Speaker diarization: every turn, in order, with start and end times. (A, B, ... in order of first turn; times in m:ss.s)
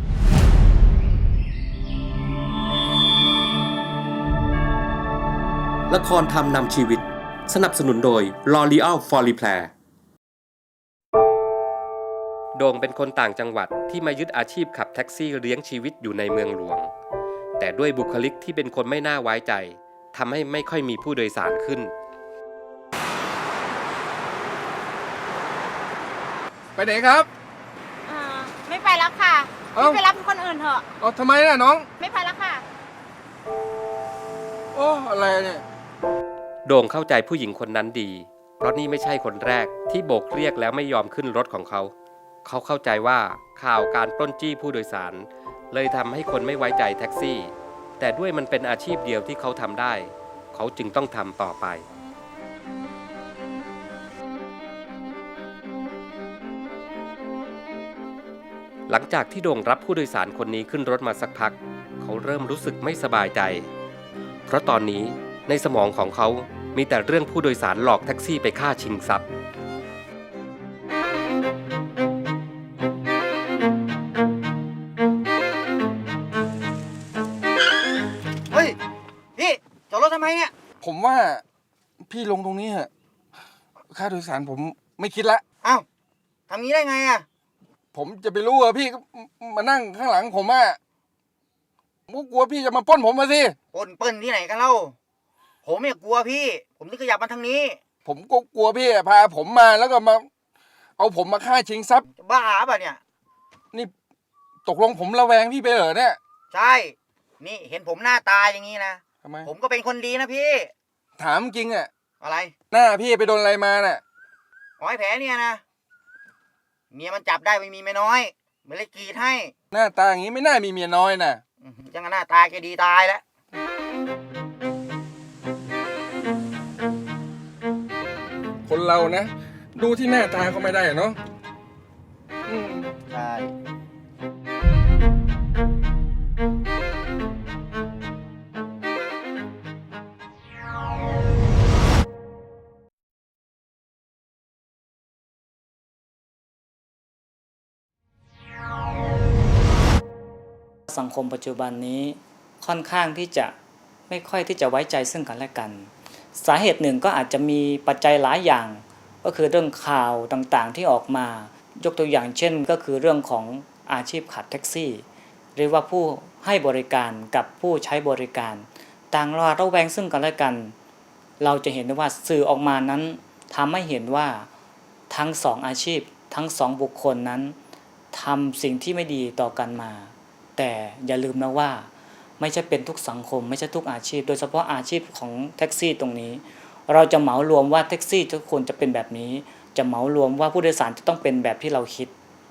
0:05.9-0:09.7 A
0:12.5-0:16.9 A
0:17.6-0:21.9 A
0:26.8-0:27.3 B
0:28.0-0:30.8 C
0:31.0-0:31.9 B
0:32.0-0:32.6 C
0:34.7-0:35.6 B
0:36.6-0:41.9 A
0:42.4-0:51.8 A
0:58.9-1:03.7 A
1:04.5-1:09.2 A
1:18.5-1:18.8 D
1:19.4-1:20.5 D
1:20.8-1:21.4 B
1:22.0-1:22.9 B
1:23.9-1:25.4 B
1:26.5-1:27.2 D
1:27.9-1:30.8 B
1:32.1-1:33.6 B
1:33.7-1:34.9 D
1:35.6-1:37.8 D
1:38.0-1:40.3 B
1:41.0-1:42.0 B
1:42.1-1:43.0 D
1:44.6-1:46.2 B
1:46.5-1:50.7 D
1:51.2-1:51.9 B
1:52.2-1:52.5 D
1:52.7-1:54.0 B
1:54.8-1:55.6 D
1:56.9-1:59.5 D
1:59.7-2:01.4 B
2:01.6-2:03.2 D
2:08.6-2:11.2 B
2:12.5-2:12.9 B
2:13.1-2:13.5 D
2:30.9-2:33.5 E
2:34.1-2:50.7 E
2:51.4-2:54.5 E
2:55.1-2:57.6 E
2:58.1-3:12.1 E